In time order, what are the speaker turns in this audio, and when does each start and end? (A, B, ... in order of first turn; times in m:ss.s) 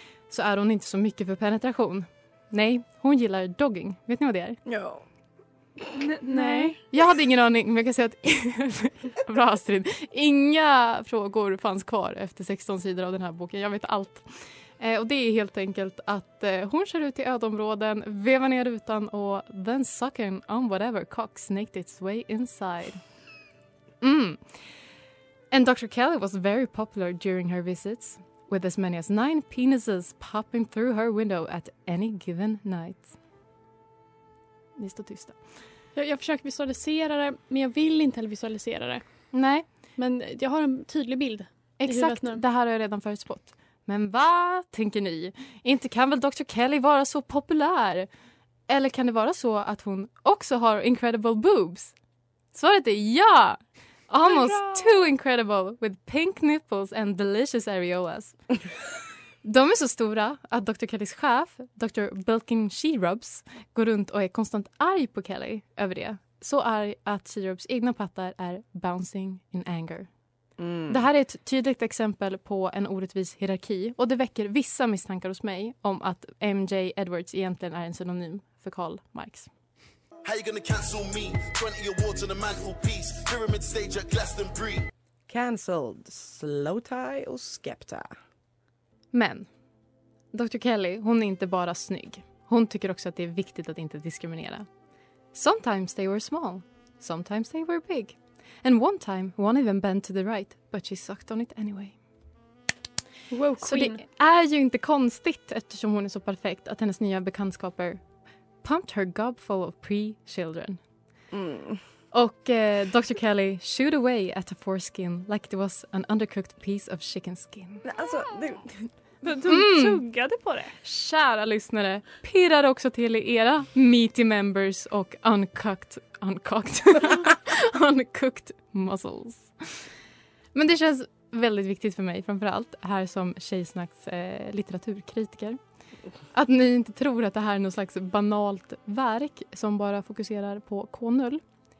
0:00.3-0:04.6 A
0:04.6-0:05.0 B
0:05.9-0:06.8 C
0:06.3-0:06.8 D
0:06.9-0:23.0 A
0:24.0-0:24.7 A
0:25.5-0:33.2 A
0:34.8-0:35.4 A
0:35.9-0:39.4 D
0:39.3-0:39.6 A
0:40.0-0:42.4 D
0:41.8-0:48.1 A
0:48.7-0:51.9 A
0:52.5-0:58.4 A
0:54.2-0:55.1 D
0:59.4-1:10.1 A
1:10.6-1:11.0 B
1:10.9-1:19.5 A
1:20.2-1:24.8 E
1:25.3-1:28.1 B
1:29.1-1:29.5 A
1:30.3-1:34.7 A
1:35.3-1:42.0 A
1:43.3-1:44.0 D
1:43.6-1:48.0 A
1:48.6-1:50.8 A
1:51.3-1:51.8 B
1:52.1-1:57.8 A
1:57.8-1:58.9 B
1:59.2-2:00.7 C
1:59.4-2:00.1 A
2:00.8-2:09.9 A
2:10.5-2:15.6 A
2:16.3-2:21.4 A